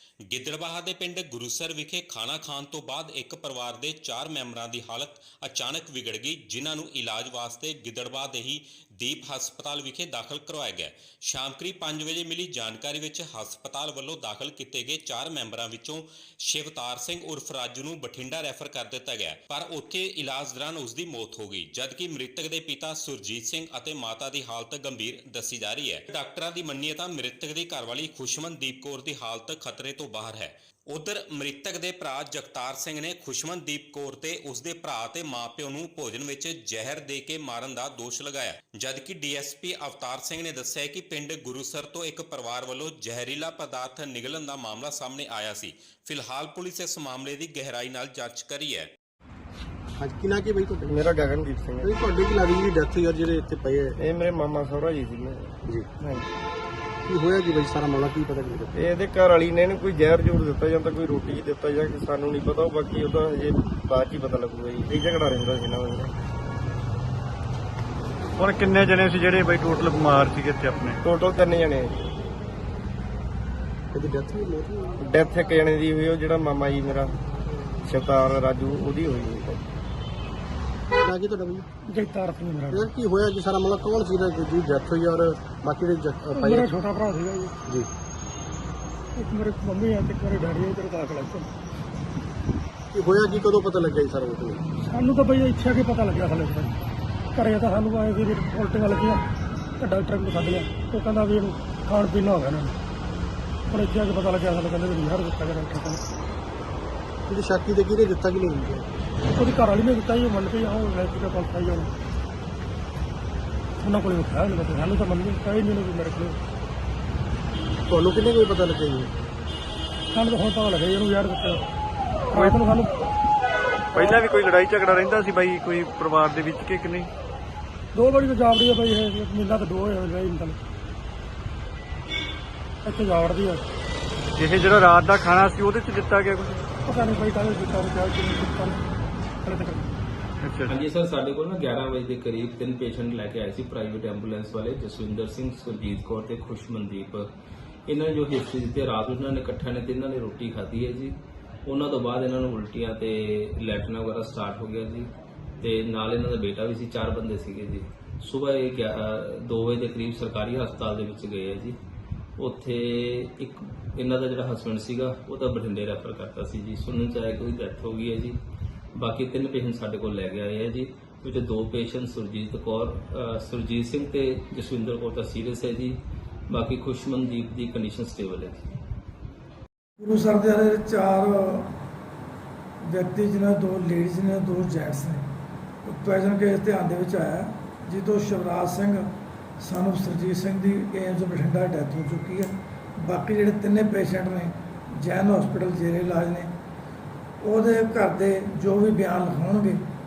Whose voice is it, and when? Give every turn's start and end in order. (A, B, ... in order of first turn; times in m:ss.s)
0:00.3-0:48.9 A
0:50.0-0:51.1 B
0:50.9-0:51.9 C
0:51.8-0:54.0 B
0:54.0-0:56.3 C
0:57.1-0:58.8 B
0:58.7-1:06.1 C
1:08.4-1:11.0 D
1:11.0-1:12.0 C
1:13.9-1:15.0 B
1:15.0-1:17.1 C
1:17.8-1:19.6 C
1:21.0-1:21.6 B
1:21.9-1:22.8 E
1:22.7-1:26.7 B
1:26.3-1:27.5 E
1:29.2-1:31.5 E
1:32.9-1:34.6 B
1:34.9-1:36.8 E
1:37.3-1:39.2 E
1:39.8-1:42.7 E
1:43.7-1:46.0 E
1:47.3-1:48.9 B
1:49.3-1:51.9 E
1:53.8-1:56.4 E
1:57.9-1:59.1 B
2:00.1-2:01.6 E
2:02.3-2:02.9 E
2:03.9-2:04.2 E
2:03.9-2:07.1 D
2:07.9-2:10.6 E
2:12.8-2:13.6 E
2:14.4-2:16.7 D
2:16.8-2:18.8 E
2:19.4-2:19.9 E
2:20.4-2:20.7 D
2:20.6-2:27.3 F
2:27.9-2:35.1 F
2:35.6-2:41.8 F
2:42.4-2:48.4 F
2:48.9-2:56.0 F
2:56.5-2:58.6 F
3:00.0-3:01.7 G
3:02.9-3:05.2 G
3:05.8-3:09.1 G
3:09.6-3:16.5 G
3:17.4-3:19.8 G